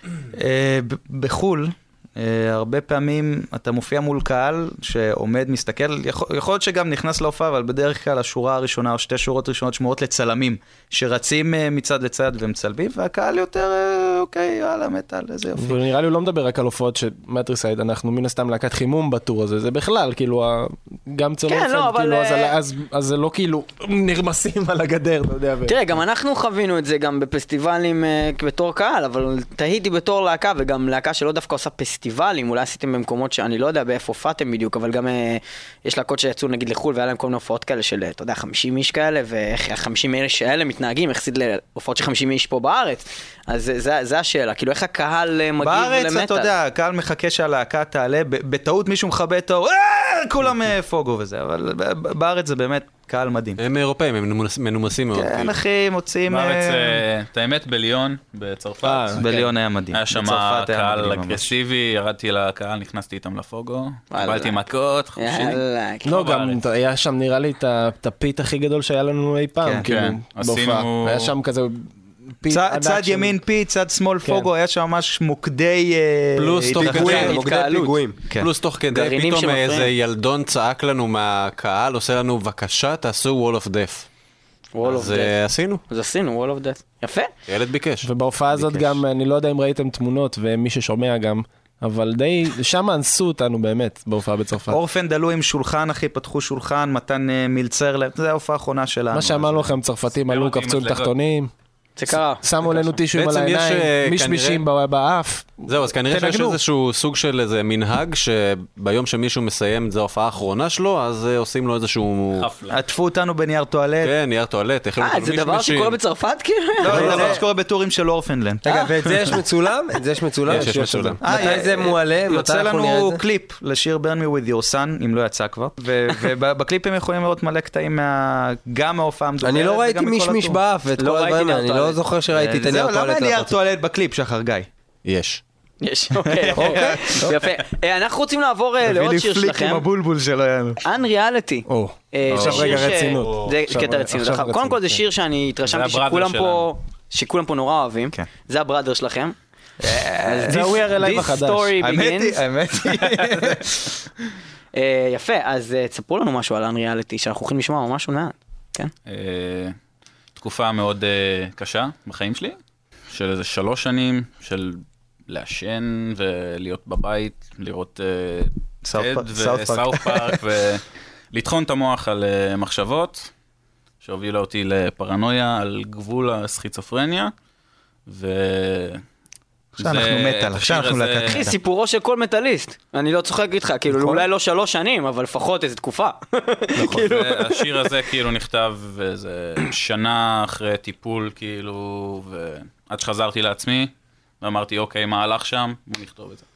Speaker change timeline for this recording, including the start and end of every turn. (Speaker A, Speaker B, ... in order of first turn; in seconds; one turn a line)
Speaker A: 0.3-15.8
Speaker B: 15.6-25.8
Speaker C: 21.5-22.6
Speaker C: 25.7-46.5
Speaker A: 45.6-53.6
Speaker D: 53.6-55.6
Speaker A: 55.1-57.0
Speaker E: 56.3-66.6
Speaker B: 58.8-59.2
Speaker A: 59.2-61.5
Speaker C: 64.1-64.6
Speaker C: 65.2-66.2
Speaker B: 66.1-73.4
Speaker E: 69.8-71.3
Speaker A: 72.5-77.3
Speaker B: 74.2-74.5
Speaker D: 76.4-77.4
Speaker F: 76.8-78.3
Speaker C: 77.0-78.0
Speaker D: 78.3-84.1
Speaker C: 78.9-79.9
Speaker C: 84.8-87.3
Speaker D: 84.8-85.8
Speaker D: 87.5-88.1
Speaker B: 88.0-94.8
Speaker A: 88.5-88.9
Speaker A: 94.7-99.7
Speaker B: 99.1-101.5
Speaker E: 100.2-101.1
Speaker C: 102.0-102.4
Speaker B: 102.1-106.5
Speaker D: 103.0-104.6
Speaker D: 105.7-112.5
Speaker A: 106.1-106.6
Speaker E: 112.4-112.8
Speaker A: 112.7-114.2
Speaker D: 114.0-116.0
Speaker C: 115.0-117.4
Speaker A: 116.8-118.7
Speaker F: 116.9-117.4
Speaker D: 116.9-117.3
Speaker F: 118.6-123.2
Speaker D: 120.5-121.2
Speaker A: 121.2-130.6
Speaker F: 129.4-133.5
Speaker C: 131.0-132.0
Speaker A: 132.3-134.7
Speaker D: 135.1-135.4
Speaker C: 135.8-139.8
Speaker A: 136.3-137.3
Speaker F: 136.6-136.9
Speaker A: 138.8-140.8
Speaker C: 140.8-149.4
Speaker B: 141.7-145.0
Speaker D: 142.4-142.9
Speaker E: 145.7-146.7
Speaker A: 149.8-151.1
Speaker C: 150.2-152.4
Speaker B: 150.5-151.8
Speaker A: 151.8-153.9
Speaker E: 153.1-153.4
Speaker C: 154.7-158.9
Speaker E: 159.1-159.8
Speaker E: 160.4-162.6
Speaker E: 163.1-173.3
Speaker A: 168.8-170.4
Speaker E: 174.0-177.3
Speaker E: 178.1-179.0
Speaker E: 179.8-181.5
Speaker A: 179.8-181.6
Speaker C: 181.3-187.9
Speaker A: 183.9-184.3
Speaker E: 186.8-196.5